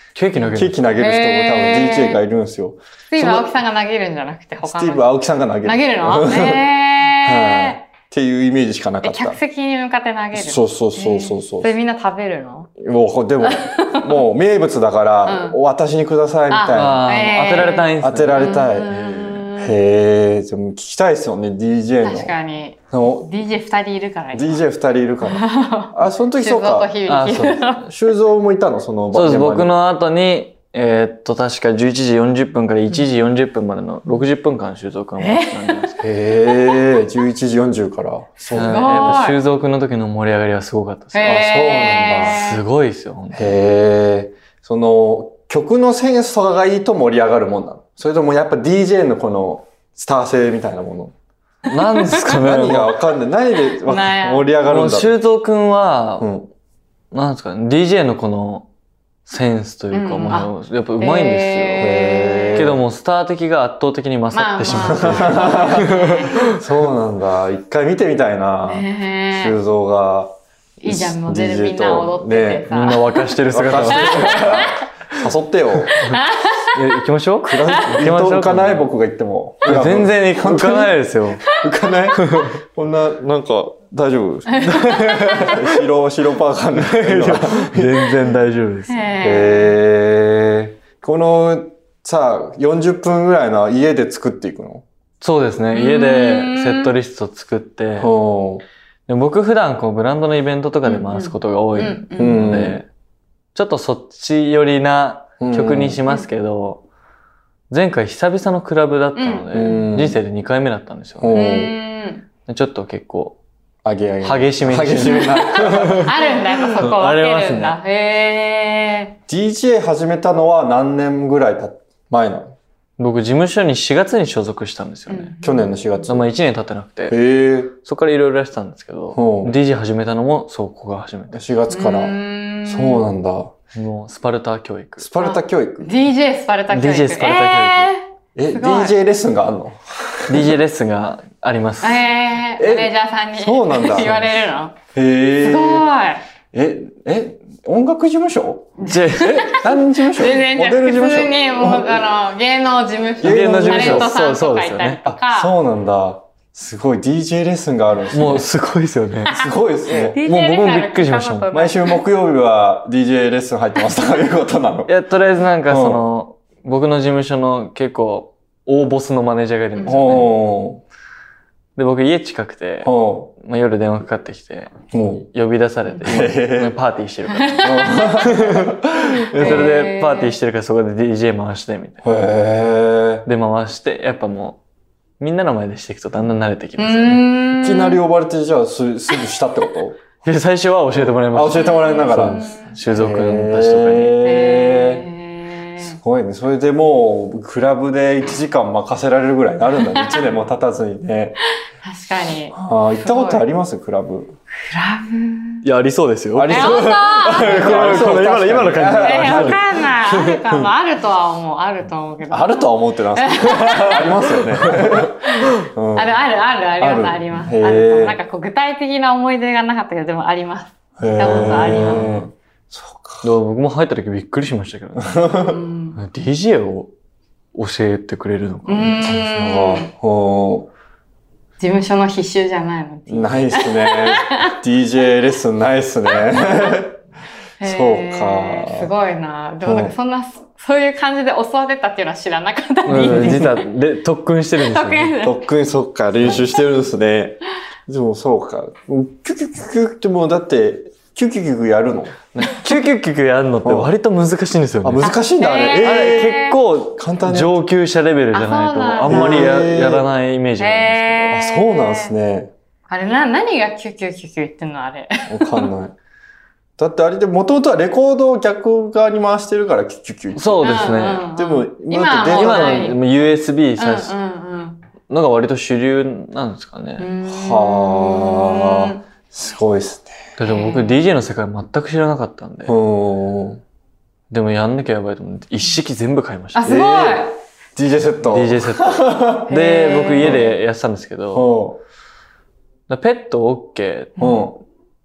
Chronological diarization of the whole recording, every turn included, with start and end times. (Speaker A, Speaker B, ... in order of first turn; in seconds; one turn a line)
Speaker A: 0.1-0.8
Speaker B: 0.5-3.6
Speaker C: 1.0-2.2
Speaker C: 3.1-5.1
Speaker B: 4.6-9.4
Speaker C: 5.6-7.8
Speaker C: 9.0-12.7
Speaker B: 10.3-11.7
Speaker B: 12.8-22.3
Speaker C: 13.4-14.2
Speaker C: 15.2-15.6
Speaker C: 16.5-19.8
Speaker A: 16.7-18.7
Speaker C: 22.0-24.6
Speaker B: 22.9-23.3
Speaker B: 24.3-26.9
Speaker C: 25.2-27.9
Speaker A: 27.1-27.8
Speaker B: 27.8-29.7
Speaker A: 29.1-36.0
Speaker C: 35.2-35.8
Speaker B: 36.0-39.2
Speaker A: 38.5-41.3
Speaker C: 38.6-39.4
Speaker C: 41.1-42.6
Speaker B: 41.2-42.5
Speaker A: 42.2-43.6
Speaker B: 43.3-51.1
Speaker A: 51.7-53.0
Speaker B: 52.1-55.1
Speaker C: 53.7-54.5
Speaker A: 54.7-56.3
Speaker B: 56.2-56.5
Speaker A: 57.1-58.7
Speaker A: 59.3-62.0
Speaker C: 59.9-62.8
Speaker B: 61.8-62.8
Speaker A: 62.5-66.6
Speaker C: 64.3-66.5
Speaker B: 64.7-72.9
Speaker C: 68.6-69.6
Speaker C: 70.8-73.3
Speaker A: 72.7-74.8
Speaker B: 73.5-76.0
Speaker C: 73.9-74.8
Speaker C: 76.0-76.8
Speaker A: 76.7-78.9
Speaker B: 77.4-88.2
Speaker A: 79.7-81.5
Speaker A: 82.2-82.5
Speaker C: 84.5-85.7
Speaker A: 84.8-85.6
Speaker A: 86.8-89.1
Speaker C: 88.9-89.7
Speaker B: 89.2-94.8
Speaker A: 95.2-98.1
Speaker C: 95.7-97.0
Speaker B: 98.0-98.6
Speaker A: 99.1-102.9
Speaker C: 100.8-102.5
Speaker B: 102.2-102.8
Speaker A: 103.5-106.8
Speaker B: 105.4-106.0
Speaker A: 107.7-111.4
Speaker C: 109.2-109.8
Speaker B: 109.5-110.2
Speaker B: 111.2-111.8
Speaker C: 111.3-112.3
Speaker A: 112.5-113.4
Speaker B: 113.8-116.6
Speaker A: 114.2-116.1
Speaker C: 115.0-119.2
Speaker A: 116.7-117.8
Speaker B: 119.3-122.5
Speaker A: 123.0-125.3
Speaker C: 125.1-125.8
Speaker B: 125.4-126.3
Speaker A: 126.1-127.2
Speaker B: 127.1-127.7
Speaker A: 127.8-131.4
Speaker B: 129.1-129.6
Speaker B: 131.3-133.5
Speaker C: 131.7-133.1
Speaker A: 133.7-135.1
Speaker B: 135.0-135.9
Speaker C: 135.2-139.0
Speaker A: 136.7-137.9
Speaker B: 138.4-140.6
Speaker A: 140.3-142.0
Speaker C: 141.8-144.8
Speaker B: 142.6-144.2
Speaker A: 144.0-144.4
Speaker B: 144.9-145.9
Speaker C: 145.4-146.2
Speaker B: 146.5-152.1
Speaker C: 148.8-155.6
Speaker A: 148.8-149.6
Speaker B: 153.2-154.1
Speaker A: 153.2-155.0
Speaker B: 155.1-158.5
Speaker A: 158.1-159.4
Speaker B: 159.3-160.2
Speaker C: 159.9-162.0
Speaker A: 160.1-161.5
Speaker B: 161.5-164.9
Speaker A: 164.9-170.4
Speaker B: 165.7-166.0
Speaker C: 169.8-170.2
Speaker B: 169.8-170.8
Speaker A: 171.8-174.8
Speaker B: 172.8-173.3
Speaker B: 174.9-175.3
Speaker A: 175.3-182.0
Speaker B: 176.0-176.8
Speaker C: 177.3-178.3
Speaker B: 177.6-179.7
Speaker C: 179.3-180.3
Speaker B: 182.0-183.3
Speaker A: 183.3-184.6
Speaker A: 185.2-187.3
Speaker C: 186.8-188.0
Speaker B: 187.5-190.0
Speaker A: 190.2-194.2
Speaker B: 191.3-195.1
Speaker C: 191.6-192.8
Speaker C: 194.2-196.0
Speaker B: 195.8-201.4
Speaker C: 199.9-200.2
Speaker C: 201.8-203.5
Speaker B: 202.5-204.3
Speaker C: 204.7-205.6
Speaker A: 205.6-209.7
Speaker B: 206.3-210.7
Speaker C: 206.5-208.1
Speaker C: 209.0-214.8
Speaker B: 212.3-216.2
Speaker C: 215.5-222.1
Speaker B: 216.8-218.2
Speaker B: 221.0-223.3
Speaker A: 221.2-222.2
Speaker A: 223.2-225.3
Speaker B: 225.0-225.6
Speaker C: 225.5-226.0
Speaker A: 226.0-226.9
Speaker A: 227.5-229.1
Speaker C: 228.7-229.9
Speaker B: 229.1-230.7
Speaker C: 231.6-234.6
Speaker B: 233.1-237.0
Speaker C: 237.6-243.6
Speaker B: 237.6-238.9
Speaker B: 239.6-239.9
Speaker A: 242.8-245.1
Speaker B: 242.9-243.6
Speaker C: 244.6-245.4
Speaker B: 245.2-252.2
Speaker A: 252.3-255.1
Speaker B: 253.6-253.9
Speaker B: 254.8-256.4
Speaker C: 255.0-256.6
Speaker A: 255.8-261.4
Speaker B: 256.9-257.6
Speaker C: 258.3-259.6
Speaker B: 259.0-260.1
Speaker C: 260.6-262.1
Speaker B: 261.3-262.5
Speaker C: 262.9-265.7
Speaker B: 265.3-265.9
Speaker B: 266.8-273.0
Speaker A: 270.4-271.2
Speaker C: 270.6-273.0
Speaker A: 272.3-274.1
Speaker C: 273.8-274.9
Speaker A: 275.1-277.1
Speaker C: 277.0-279.0
Speaker B: 277.2-280.2
Speaker A: 280.4-282.8
Speaker C: 280.5-281.0
Speaker B: 282.7-283.6
Speaker A: 284.3-286.7
Speaker C: 286.6-287.4
Speaker B: 286.6-289.5
Speaker A: 288.3-291.5
Speaker C: 289.5-290.5
Speaker B: 290.2-290.5
Speaker B: 291.3-291.8
Speaker A: 292.9-294.4
Speaker C: 294.2-294.5
Speaker B: 294.2-294.6